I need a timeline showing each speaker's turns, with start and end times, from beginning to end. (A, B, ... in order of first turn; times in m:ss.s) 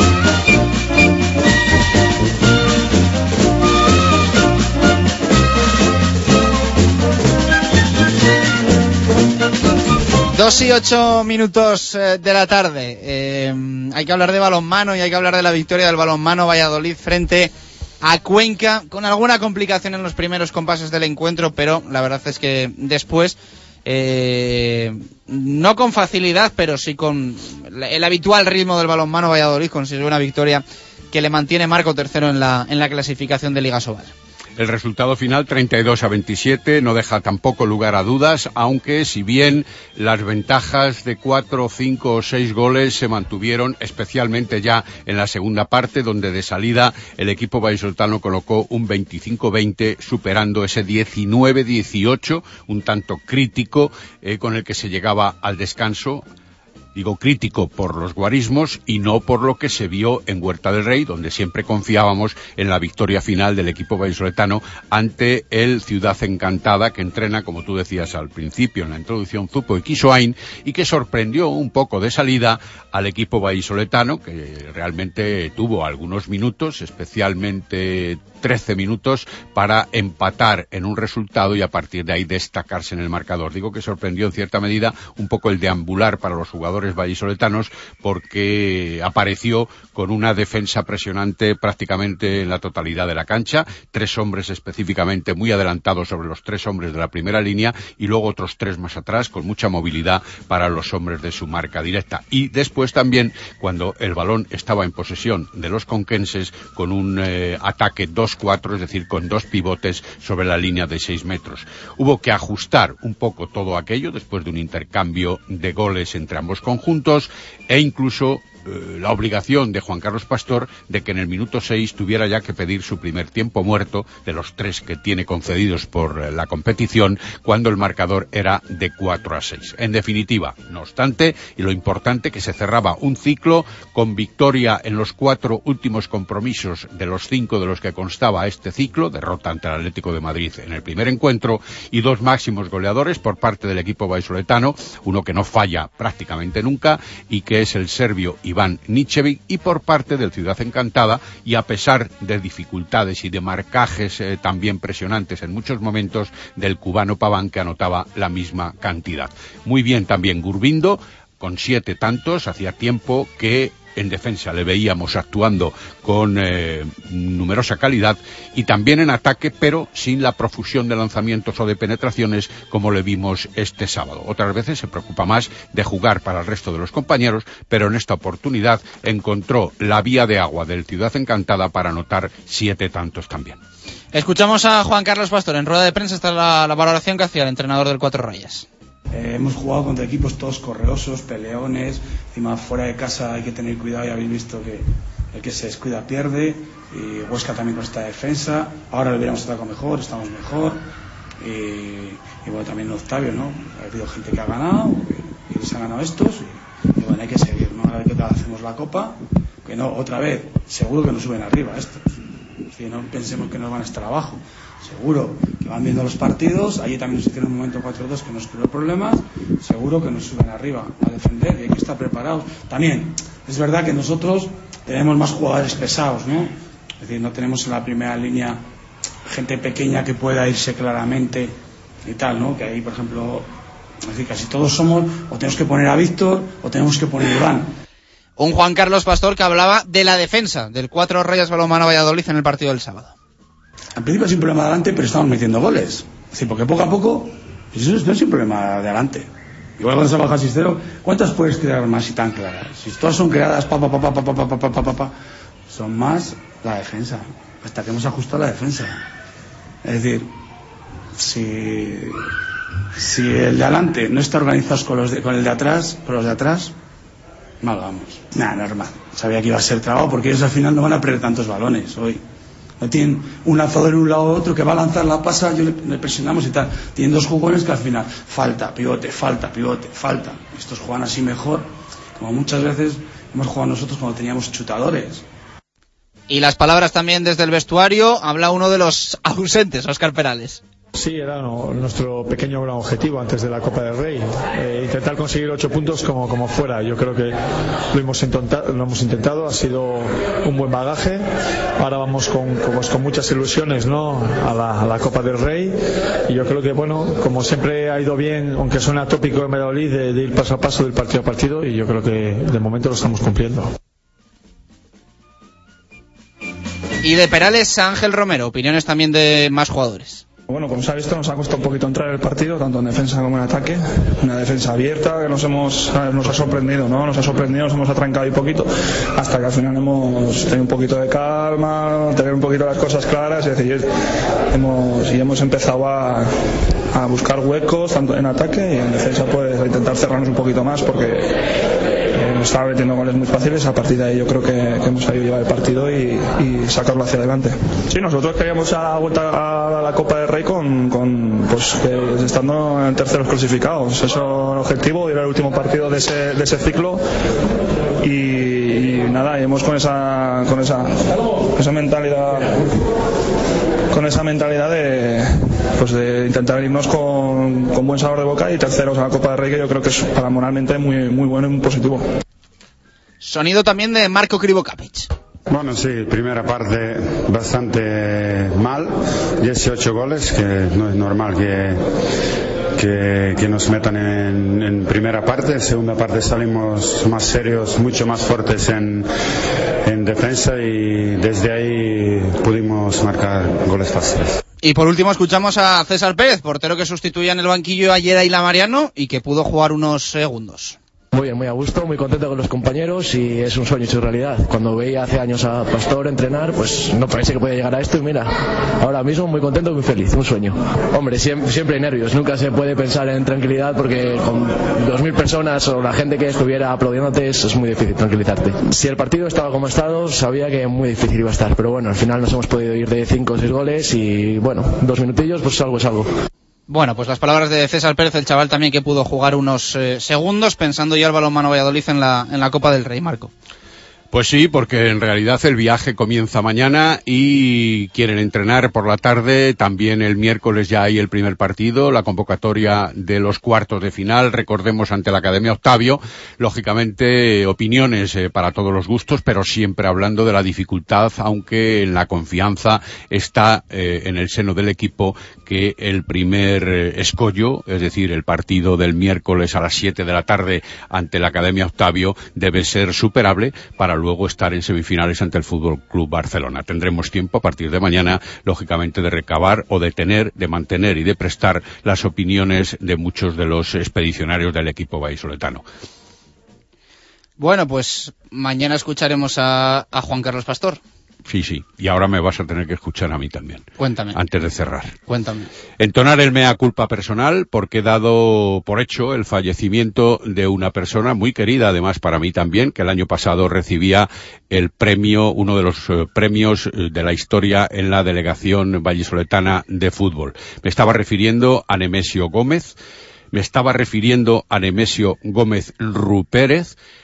0:10.3-0:34.1 A
0:34.6-0:56.2 B
0:57.0-3:03.6 B
3:04.1-3:08.7 A
3:09.1-3:20.8 C
3:21.4-3:32.1 C
3:32.7-3:48.7 C
3:49.3-3:53.5 C
3:54.0-3:57.7 C
3:58.4-4:03.1 A
4:04.0-4:15.1 C
4:15.7-4:19.0 C
4:19.8-4:20.3 C
4:21.1-4:22.3 C
4:23.0-4:26.8 C
4:27.6-4:32.2 C
4:32.8-4:45.2 C
4:46.3-4:50.6 A
4:51.0-4:57.4 D
4:57.9-5:13.7 D
5:17.0-5:20.2 A
5:20.5-5:33.9 E
5:34.5-5:36.3 E
5:36.9-5:41.5 E
5:42.1-5:57.0 E
5:58.0-6:02.8 E
6:03.9-6:12.1 E
6:13.2-6:15.1 A
6:15.5-6:21.9 F
6:22.7-6:29.1 F
6:29.8-6:34.4 F
6:34.6-6:40.8 A
6:41.1-7:06.1 G
7:06.7-7:13.3 A
7:14.1-7:55.6 B
7:57.4-8:00.8 A
8:01.2-8:05.0 B
8:03.8-8:04.2 A
8:05.1-8:05.5 A
8:05.8-8:22.8 B
8:23.3-8:26.8 B